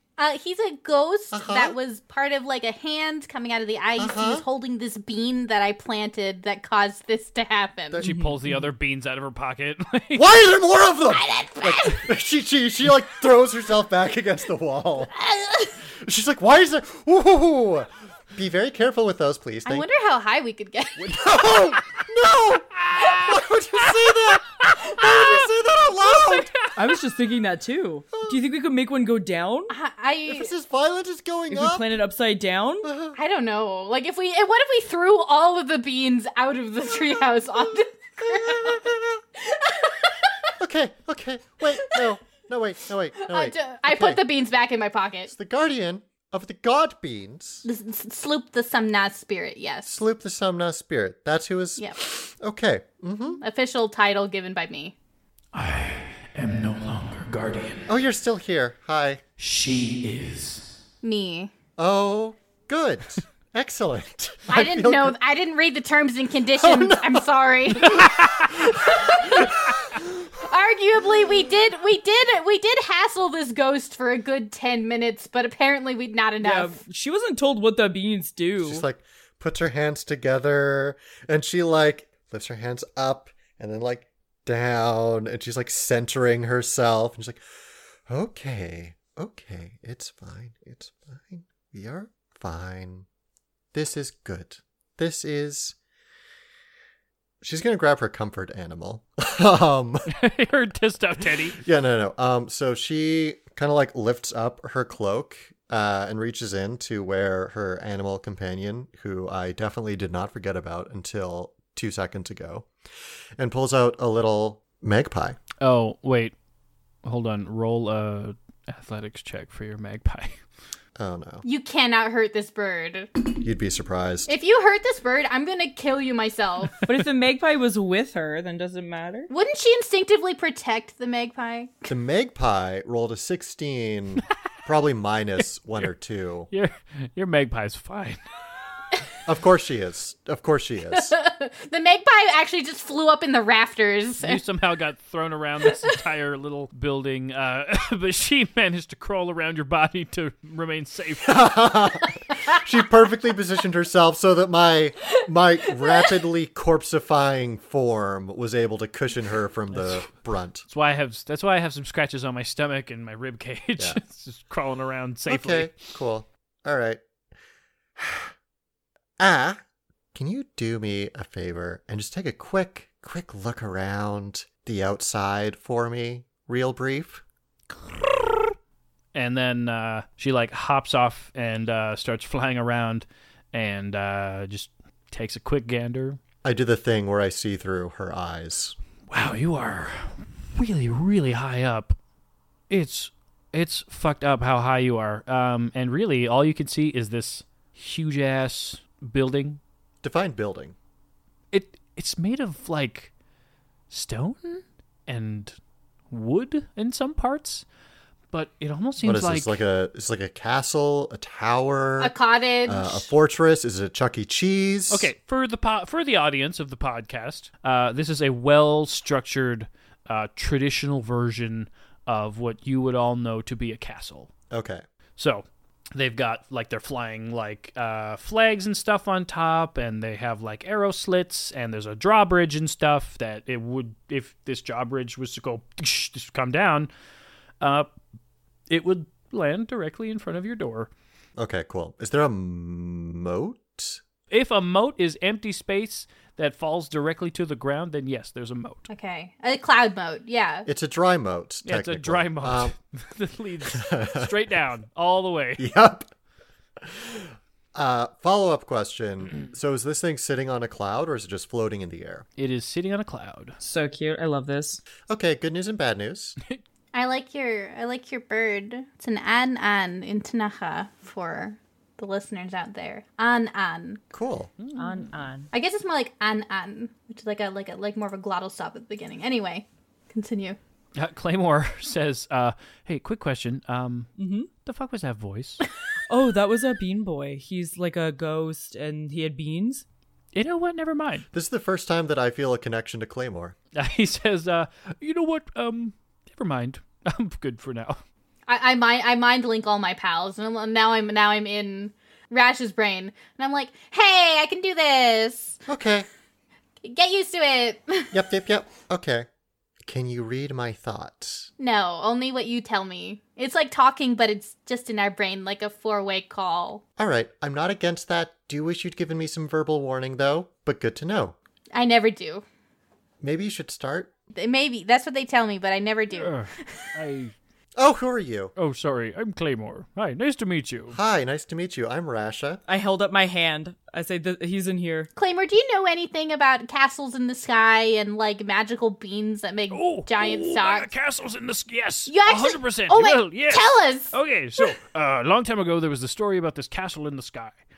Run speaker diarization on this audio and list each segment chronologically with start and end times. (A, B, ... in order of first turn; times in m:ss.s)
0:00.2-0:08.0 A
0:01.3-0:01.8 B
0:04.0-0:04.4 B
0:08.0-0:10.4 C
0:08.0-0:08.7 D
0:10.2-0:15.1 B
0:11.1-0:12.1 A
0:15.2-0:15.7 A
0:15.8-0:19.9 B
0:19.6-0:21.6 A
0:21.0-0:26.6 B
0:26.2-0:26.8 C
0:26.8-0:29.7 D
0:28.1-0:28.4 B
0:29.7-0:30.5 A
0:30.3-0:32.0 B
0:31.5-0:32.9 D
0:32.8-0:33.2 B
0:33.2-0:38.9 A
0:38.2-0:39.2 B
0:39.5-0:40.3 A
0:40.6-0:44.2 B
0:43.2-0:45.3 A
0:45.3-0:47.6 B
0:47.6-0:50.0 A
0:49.9-0:53.4 B
0:53.4-0:55.0 A
0:55.5-0:57.9 C
0:57.9-0:59.2 B
0:59.4-1:00.7 C
1:01.0-1:01.5 A
1:01.8-1:05.2 B
1:04.5-1:09.6 A
1:06.6-1:07.3 B
1:07.9-1:08.5 C
1:07.9-1:09.7 B
1:10.4-1:16.8 A
1:16.4-1:18.9 D
1:18.6-1:27.4 B
1:28.1-1:33.1 B
1:33.7-1:35.8 B
1:37.4-1:40.1 B
1:40.1-1:41.6 C
1:41.5-1:52.7 B
1:53.4-1:55.4 B
1:55.6-1:56.3 C
1:57.0-2:00.4 C
2:01.0-2:01.4 B
2:01.4-2:03.1 A
2:03.4-2:04.3 B
2:04.3-2:06.8 A
2:06.9-2:09.3 D
2:09.3-2:11.9 A
2:11.9-2:16.5 B
2:16.5-2:18.2 C
2:19.3-2:21.2 B
2:20.9-2:24.4 A
2:24.2-2:31.5 C
2:31.3-2:40.6 B
2:35.8-2:36.1 A
2:39.7-2:40.0 C
2:40.7-2:45.8 C
2:45.3-2:47.0 B
2:48.0-2:48.3 B
2:49.2-2:49.6 B
2:50.2-2:57.2 B
2:59.1-3:06.2 C
3:06.4-3:08.8 B
3:09.1-3:12.0 C
3:12.7-3:19.6 C
3:20.0-3:20.8 B
3:21.5-3:23.1 C
3:23.9-3:25.6 C
3:26.1-3:27.6 C
3:28.3-3:29.6 C
3:29.0-3:35.1 B
3:32.0-3:33.1 A
3:34.9-3:44.3 C
3:44.5-3:44.8 B
3:45.2-3:56.9 C
3:57.6-3:57.9 C
3:58.7-4:00.9 C
4:01.4-4:04.0 B
4:04.3-4:08.9 C
4:08.9-4:10.7 A
4:10.7-4:12.7 B
4:11.6-4:15.6 C
4:13.7-4:14.3 B
4:15.6-4:16.1 B
4:16.8-4:22.3 B
4:22.4-4:23.6 C
4:23.6-4:24.8 D
4:25.1-4:26.4 B
4:26.9-4:34.0 A
4:34.1-4:34.5 B
4:34.6-4:35.1 C
4:34.8-4:35.5 D
4:35.5-4:40.6 A
4:41.0-4:45.6 C
4:44.2-4:44.5 D
4:46.1-4:49.8 D
4:50.3-4:51.3 C
4:51.3-4:53.6 B
4:53.8-4:58.0 C
4:58.5-5:05.6 A
5:05.7-5:06.1 B
5:06.8-5:08.2 A
5:08.1-5:09.3 B
5:09.8-5:11.5 B
5:11.6-5:16.8 A
5:17.0-5:21.4 B
5:21.7-5:22.4 A
5:23.2-5:24.1 B
5:24.3-5:26.9 A
5:26.1-5:27.3 C
5:27.8-5:28.5 B
5:28.6-5:31.0 C
5:30.9-5:32.6 B
5:32.7-5:35.1 D
5:35.2-5:40.9 A
5:39.7-5:47.6 C
5:42.1-5:44.7 A